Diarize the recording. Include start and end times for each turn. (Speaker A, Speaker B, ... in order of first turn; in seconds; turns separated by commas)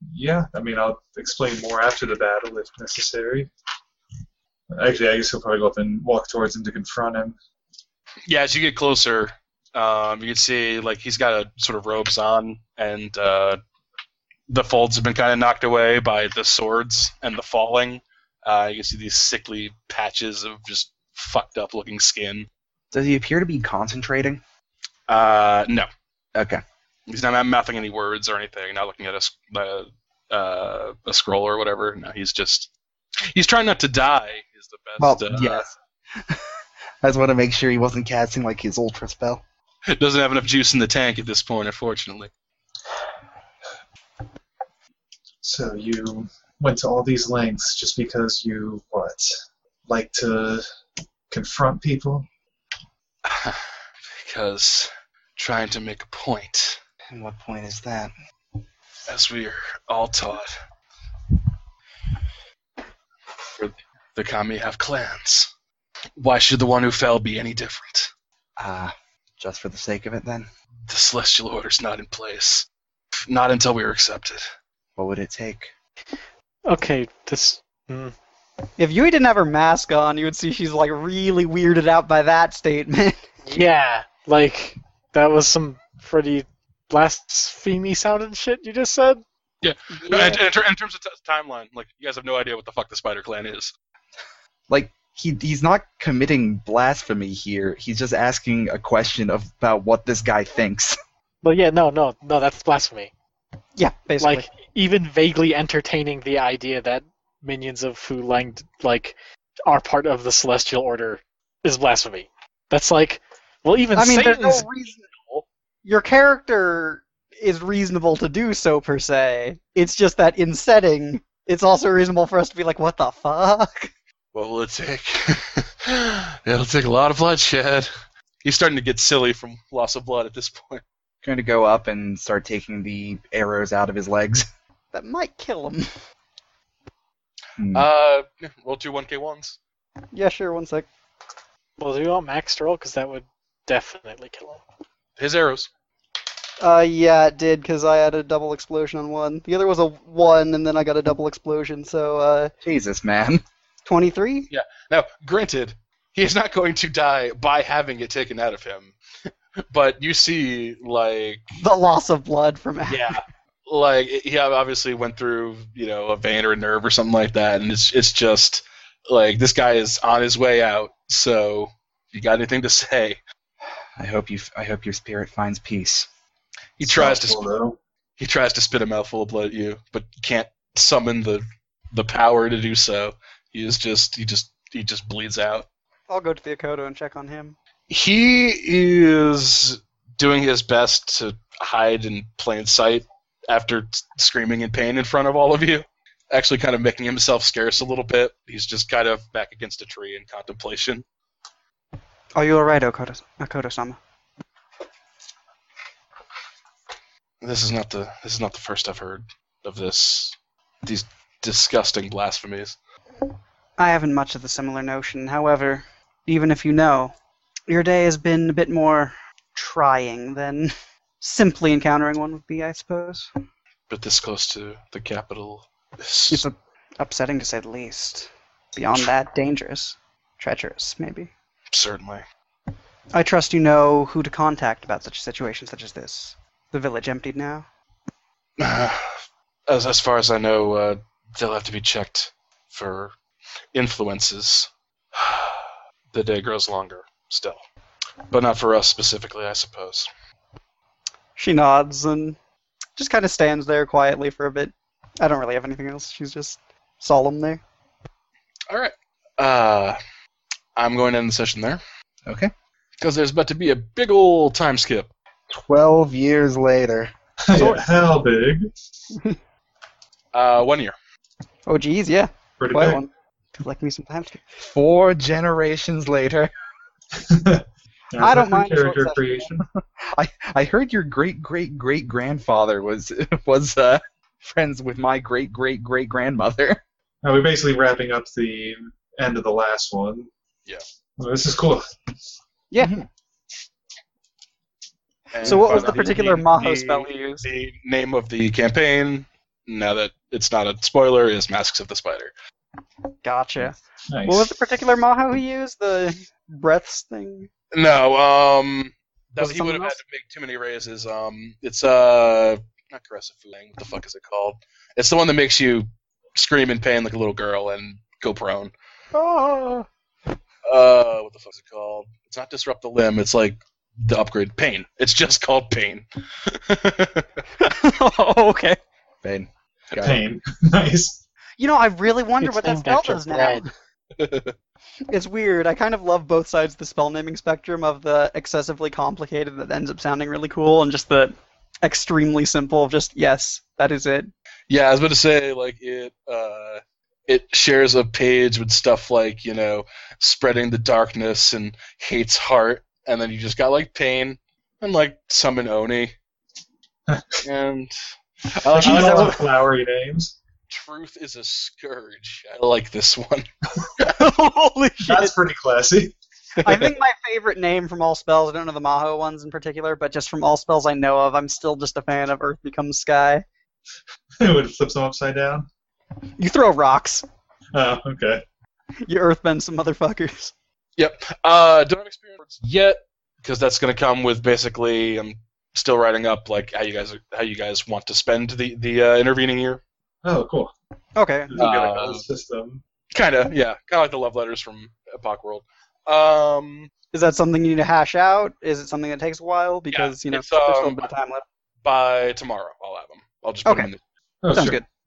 Speaker A: 0.1-3.5, Speaker A: 4.7-7.3, Speaker B: 8.3-13.6, Speaker B: 14.5-22.5, Speaker C: 22.9-24.4, Speaker B: 25.1-25.9, Speaker C: 26.4-26.6, Speaker B: 27.1-32.7, Speaker B: 33.3-35.7, Speaker C: 35.0-36.5, Speaker C: 37.0-39.4, Speaker B: 39.9-42.3, Speaker A: 45.4-49.3, Speaker A: 49.9-50.6, Speaker A: 51.3-52.3, Speaker B: 53.3-56.8, Speaker C: 57.1-58.1, Speaker B: 59.1-60.5, Speaker B: 63.6-65.5, Speaker B: 66.2-68.1, Speaker C: 68.6-70.5, Speaker B: 70.9-72.7, Speaker B: 73.3-74.5, Speaker C: 75.0-75.7, Speaker D: 76.7-78.1, Speaker E: 78.8-83.2, Speaker D: 83.5-89.2, Speaker B: 89.6-93.7, Speaker E: 89.9-90.4, Speaker C: 94.7-101.0, Speaker D: 101.4-103.1, Speaker E: 103.8-104.5, Speaker D: 104.2-109.2, Speaker D: 109.7-114.7, Speaker E: 114.0-123.9, Speaker B: 124.3-127.9, Speaker B: 128.4-130.8, Speaker C: 131.2-134.5, Speaker E: 134.9-135.9, Speaker C: 137.6-137.9, Speaker B: 137.7-139.6, Speaker E: 140.1-140.9, Speaker D: 141.8-144.6, Speaker B: 145.2-145.7, Speaker E: 146.6-152.5, Speaker C: 152.6-153.4, Speaker E: 153.9-154.5, Speaker B: 154.5-161.4, Speaker E: 161.6-163.1, Speaker B: 162.9-173.2, Speaker C: 174.0-176.1, Speaker B: 176.8-177.5, Speaker A: 176.8-177.8, Speaker B: 178.2-185.7, Speaker E: 186.1-187.6, Speaker B: 187.9-201.1, Speaker E: 202.4-204.0, Speaker B: 207.4-212.8, Speaker E: 213.8-217.2, Speaker E: 217.7-223.3, Speaker B: 223.9-226.5, Speaker E: 226.3-231.3, Speaker B: 231.7-232.2, Speaker E: 233.1-237.7, Speaker B: 238.6-243.1, Speaker B: 243.7-245.6, Speaker B: 246.1-247.6, Speaker B: 248.3-250.1, Speaker E: 251.4-252.4, Speaker E: 253.0-257.6, Speaker B: 258.7-260.0, Speaker B: 260.8-261.8, Speaker C: 262.3-262.5, Speaker B: 263.0-265.1, Speaker C: 265.5-267.1, Speaker A: 267.5-268.7, Speaker E: 267.6-267.8, Speaker B: 270.3-271.0, Speaker E: 271.7-274.5, Speaker A: 272.6-273.0, Speaker C: 274.6-276.5, Speaker A: 277.1-279.6, Speaker E: 278.2-279.5, Speaker C: 279.8-286.8, Speaker A: 287.2-290.3, Speaker A: 291.2-291.8, Speaker E: 292.7-293.1, Speaker C: 292.8-293.1, Speaker B: 295.3-302.3, Speaker E: 295.4-297.4, Speaker E: 303.2-307.5, Speaker A: 304.1-304.5, Speaker B: 307.7-318.7, Speaker E: 309.4-310.0, Speaker E: 319.1-319.9, Speaker B: 320.6-327.3, Speaker E: 327.6-328.8, Speaker C: 329.2-330.2, Speaker A: 330.0-331.2, Speaker E: 331.6-333.7, Speaker D: 332.4-333.6, Speaker B: 334.1-334.5, Speaker E: 335.1-344.3, Speaker B: 344.7-356.2, Speaker A: 357.1-357.4, Speaker B: 357.4-357.9, Speaker B: 358.5-359.4, Speaker A: 358.7-360.4, Speaker E: 358.8-359.5, Speaker B: 360.7-364.2, Speaker E: 364.0-365.3, Speaker A: 365.0-366.2, Speaker B: 366.6-366.9, Speaker E: 366.6-373.4, Speaker A: 374.4-375.7, Speaker E: 376.4-377.3, Speaker A: 377.7-378.4, Speaker E: 379.1-380.5, Speaker B: 381.0-389.8, Speaker A: 390.2-390.7, Speaker E: 391.2-391.6, Speaker A: 391.5-392.8, Speaker B: 391.6-392.2, Speaker B: 393.1-396.9, Speaker E: 397.1-401.4, Speaker B: 399.9-401.1, Speaker B: 401.8-404.0, Speaker E: 403.6-403.9, Speaker A: 404.4-404.8, Speaker E: 404.5-404.9